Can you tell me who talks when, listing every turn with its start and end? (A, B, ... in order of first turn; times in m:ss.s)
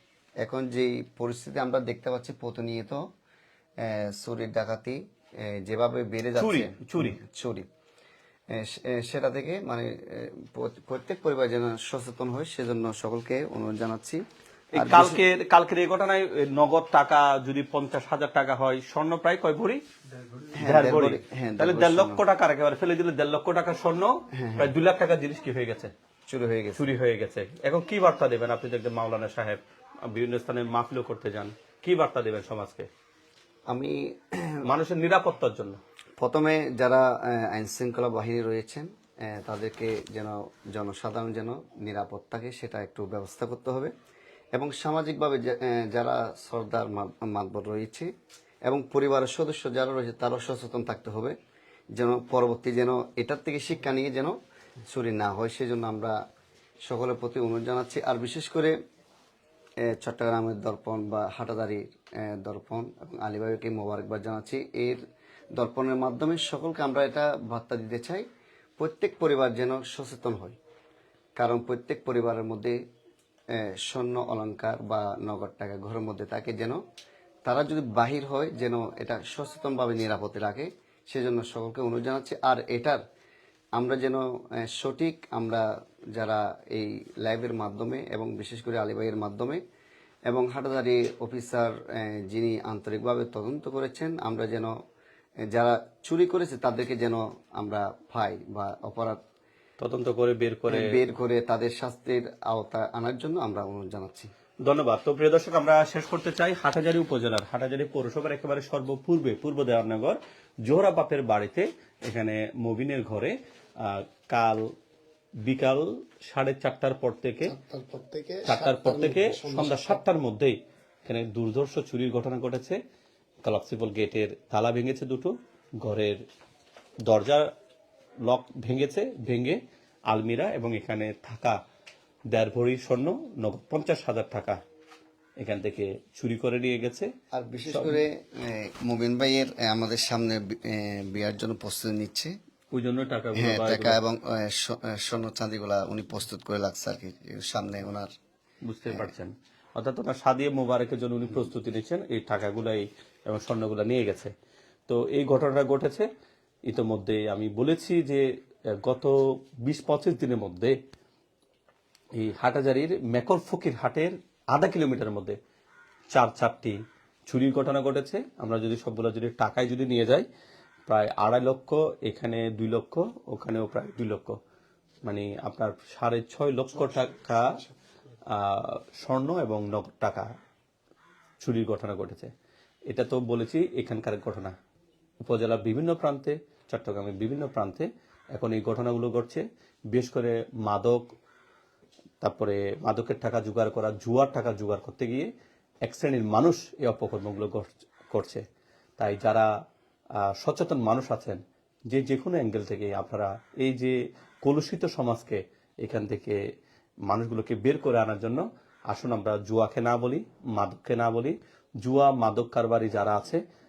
0:00.4-0:03.0 A
0:03.8-0:07.6 A
0:06.4-0:07.2 B
0:08.5-0:14.2 A
0:14.7-0:19.8 B
0:14.7-0:15.2 A
0:20.5-0:22.2 A
0:20.6-0:25.9 B
0:24.3-0:24.7 A
0:26.3-0:26.9 A
0:26.8-0:32.9 B
0:33.7-0:34.7 A
0:34.6-0:35.8 B
0:36.2-0:43.9 A
0:44.5-0:48.1 A
0:48.6-0:51.4 A
0:51.9-0:56.2 A
0:56.8-0:58.7 A
0:59.8-1:05.0 A
1:05.6-1:08.2 A
1:08.8-1:10.6 A
1:11.4-1:12.8 A
1:13.5-1:16.8 A
1:17.4-1:23.0 A
1:23.7-1:29.6 A
1:30.3-1:34.7 A
1:35.4-1:39.2 A
1:39.8-1:41.0 B
1:40.7-1:44.3 A
1:44.6-1:54.6 B
1:55.4-1:57.5 B
1:57.4-2:00.0 C
1:58.4-2:02.8 B
2:03.4-2:06.2 B
2:07.1-2:07.5 B
2:08.2-2:11.6 B
2:12.3-2:14.6 B
2:15.4-2:17.1 B
2:17.3-2:22.3 A
2:17.7-2:18.0 B
2:22.7-2:24.0 B
2:23.3-2:28.1 A
2:28.6-2:34.3 B
2:28.9-2:29.1 A
2:34.9-2:36.1 B
2:36.7-2:40.8 B
2:42.2-2:45.4 B
2:46.1-2:50.2 B
2:50.9-2:54.4 B
2:55.0-2:57.6 B
2:58.3-3:00.3 B
3:01.4-3:02.3 B
3:02.9-3:04.6 B
3:05.2-3:11.0 B
3:12.2-3:15.3 B
3:15.8-3:18.4 B
3:19.0-3:19.5 B
3:20.2-3:26.4 B
3:27.1-3:33.4 B